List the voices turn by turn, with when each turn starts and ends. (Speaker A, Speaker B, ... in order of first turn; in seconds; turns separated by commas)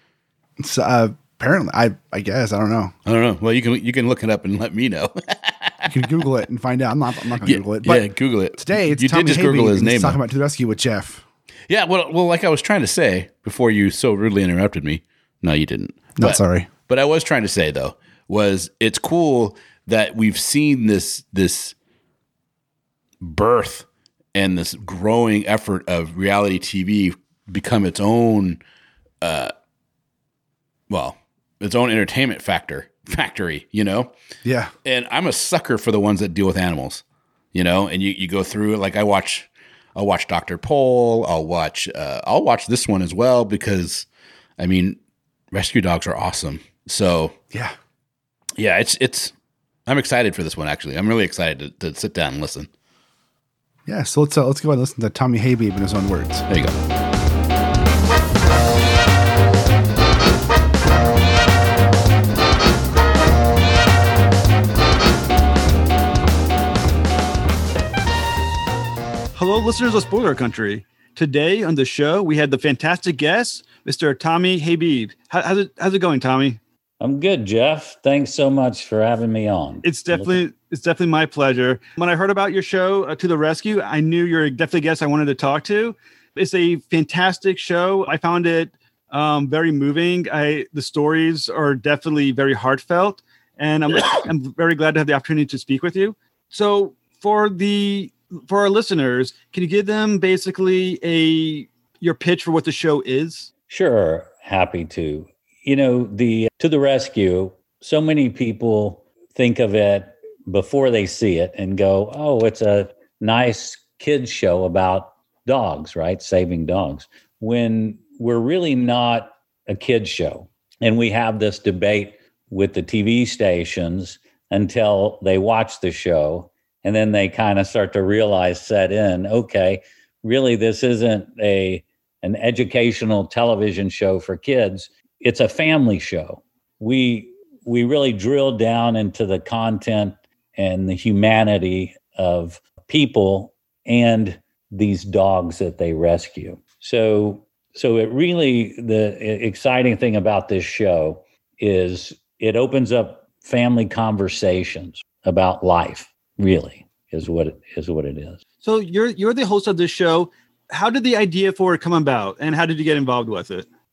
Speaker A: 0.6-2.9, Speaker B: 3.0-6.1, Speaker A: 5.9-11.2, Speaker B: 7.4-10.2, Speaker B: 11.7-21.8, Speaker A: 16.2-16.7, Speaker B: 23.2-28.6, Speaker B: 29.2-29.5, Speaker B: 30.9-34.1, Speaker A: 34.4-34.7, Speaker B: 34.8-37.0, Speaker B: 37.5-44.1, Speaker B: 44.6-45.0, Speaker B: 45.5-47.4, Speaker B: 48.6-49.3, Speaker B: 49.9-52.7, Speaker A: 53.9-56.5, Speaker B: 56.5-56.8, Speaker C: 69.3-76.6, Speaker D: 77.0-80.4, Speaker C: 79.8-103.5, Speaker D: 103.7-158.4, Speaker C: 158.6-163.7